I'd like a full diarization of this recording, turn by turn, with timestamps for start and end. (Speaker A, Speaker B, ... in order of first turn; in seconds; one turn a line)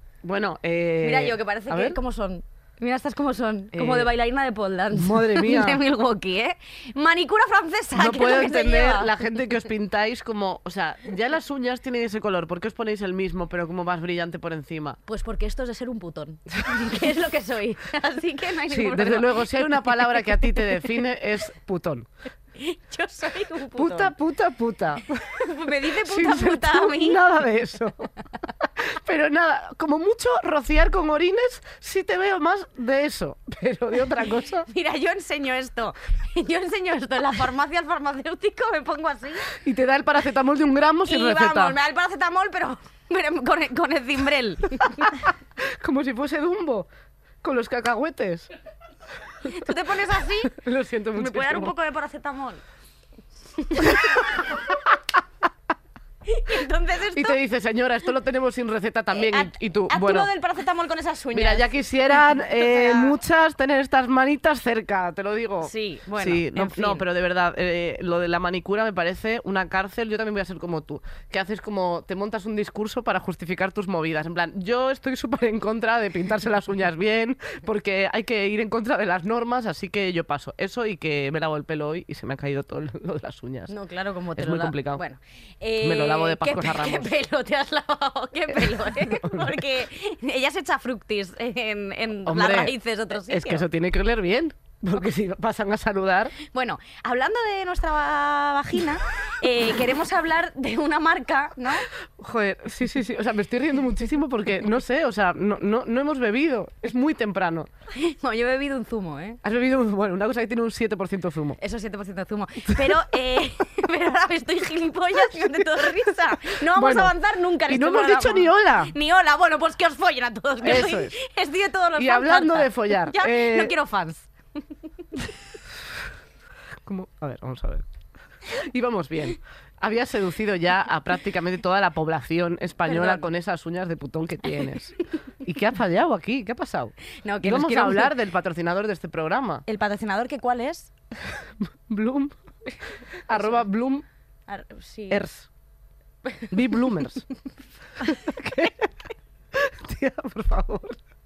Speaker A: 0.2-2.0
Speaker B: 1.0-9.1
Speaker A: 3.7-4.1
Speaker A: 4.9-5.8
Speaker A: 8.0-15.0
Speaker B: 15.1-19.6
Speaker A: 18.7-22.1
Speaker B: 22.6-24.1
Speaker A: 23.8-25.3
Speaker B: 25.3-27.2
Speaker A: 26.0-28.1
Speaker A: 28.8-34.6
Speaker B: 34.6-39.5
Speaker A: 39.5-41.8
Speaker B: 41.0-45.1
Speaker A: 45.6-46.9
Speaker A: 47.4-48.5
Speaker B: 49.5-50.5
Speaker A: 50.5-51.7
Speaker B: 51.1-52.6
Speaker B: 53.6-54.5
Speaker B: 56.2-57.4
Speaker A: 57.1-60.3
Speaker B: 59.1-63.1
Speaker A: 61.3-83.7
Speaker B: 65.6-67.0
Speaker B: 83.7-93.7
Speaker A: 84.4-85.0
Speaker A: 85.8-87.1
Speaker A: 88.9-89.5
Speaker A: 92.2-92.7
Speaker A: 93.3-96.3
Speaker B: 96.4-101.8
Speaker A: 102.2-107.7
Speaker B: 107.9-109.4
Speaker A: 109.4-111.6
Speaker B: 111.6-124.3
Speaker A: 112.7-113.0
Speaker A: 115.4-117.1
Speaker A: 117.7-118.9
Speaker A: 120.6-121.1
Speaker A: 122.0-123.7
Speaker A: 126.8-127.8
Speaker A: 128.5-139.6
Speaker B: 132.8-133.2
Speaker B: 137.2-138.1
Speaker B: 139.7-140.9
Speaker A: 141.6-142.3
Speaker A: 143.3-144.0
Speaker B: 143.3-143.6
Speaker B: 144.5-145.2
Speaker A: 145.1-145.5
Speaker A: 146.5-147.2
Speaker A: 148.0-148.9
Speaker A: 149.5-151.0